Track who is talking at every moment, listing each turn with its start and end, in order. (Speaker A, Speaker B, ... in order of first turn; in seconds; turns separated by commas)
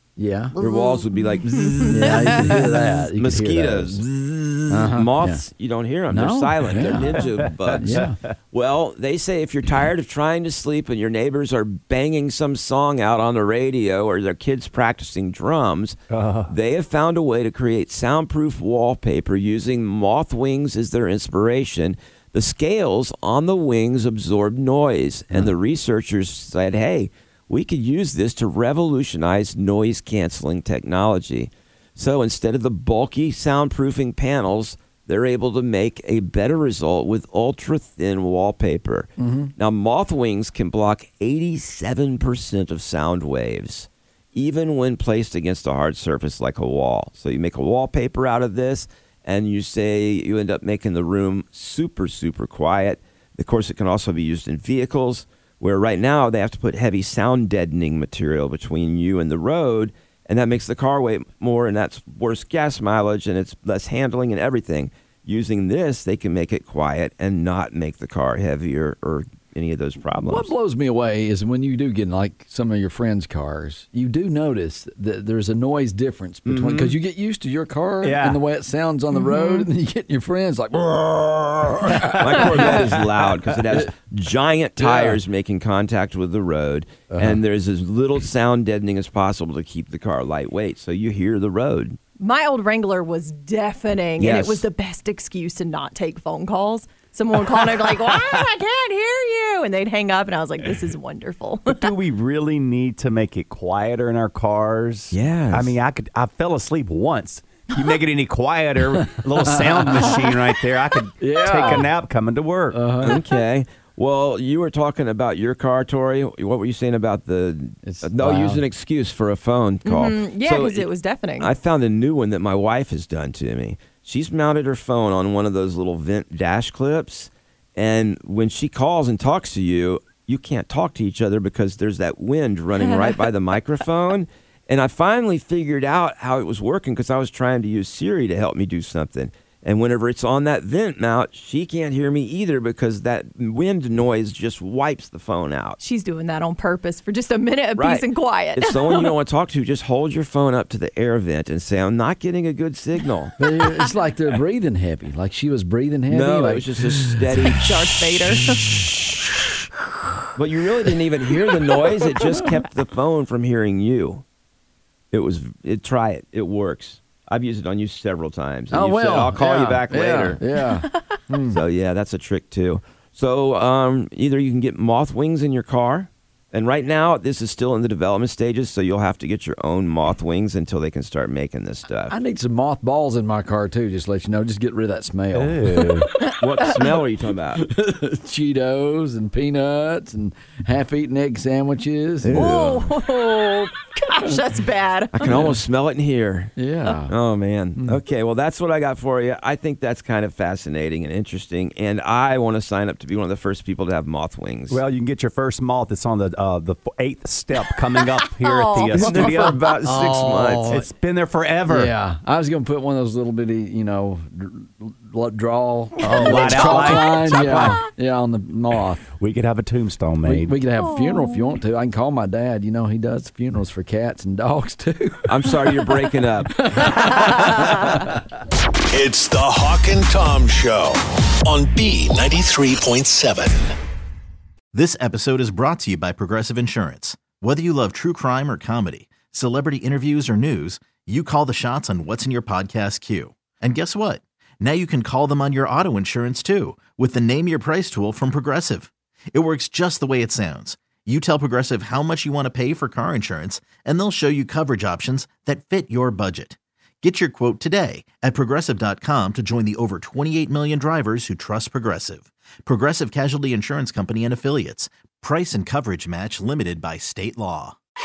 Speaker A: 0.2-0.6, Speaker B: 0.6-70.5, Speaker A: 1.8-4.0, Speaker A: 4.7-5.5, Speaker A: 6.1-7.2, Speaker C: 7.2-8.1, Speaker A: 7.8-8.2, Speaker C: 16.1-16.5, Speaker A: 39.2-39.5, Speaker A: 70.2-82.9, Speaker C: 76.5-77.0, Speaker C: 78.0-78.4, Speaker D: 79.1-79.7, Speaker B: 82.2-92.0, Speaker A: 84.8-85.2, Speaker A: 87.1-87.4, Speaker D: 92.2-101.9, Speaker B: 94.2-94.7, Speaker C: 101.7-113.0, Speaker B: 105.1-105.8, Speaker A: 109.5-110.2, Speaker A: 111.2-111.9, Speaker A: 112.7-113.2, Speaker B: 113.0-120.9, Speaker A: 117.8-118.6, Speaker D: 119.8-121.5, Speaker B: 121.4-145.8, Speaker D: 132.8-133.2, Speaker D: 145.8-149.1, Speaker B: 147.8-153.3, Speaker A: 153.4-156.8, Speaker B: 156.1-157.7, Speaker D: 157.3-158.9, Speaker B: 160.3-164.2, Speaker B: 165.1-170.4, Speaker A: 168.7-171.6, Speaker B: 171.5-182.2, Speaker A: 182.1-186.0, Speaker C: 185.3-186.1, Speaker B: 186.4-187.6, Speaker A: 187.6-192.5, Speaker B: 192.2-192.9, Speaker D: 192.3-195.5, Speaker B: 195.1-204.8, Speaker A: 196.6-197.2, Speaker C: 204.7-209.6, Speaker D: 208.4-209.3, Speaker B: 208.9-210.9, Speaker A: 209.8-210.7, Speaker C: 210.7-211.9, Speaker A: 211.7-219.0, Speaker C: 216.0-217.8, Speaker D: 216.2-216.9, Speaker C: 219.1-220.6, Speaker A: 220.2-225.8, Speaker D: 220.8-221.6, Speaker B: 225.3-226.9, Speaker A: 226.6-228.0, Speaker E: 228.9-233.6, Speaker F: 234.7-267.8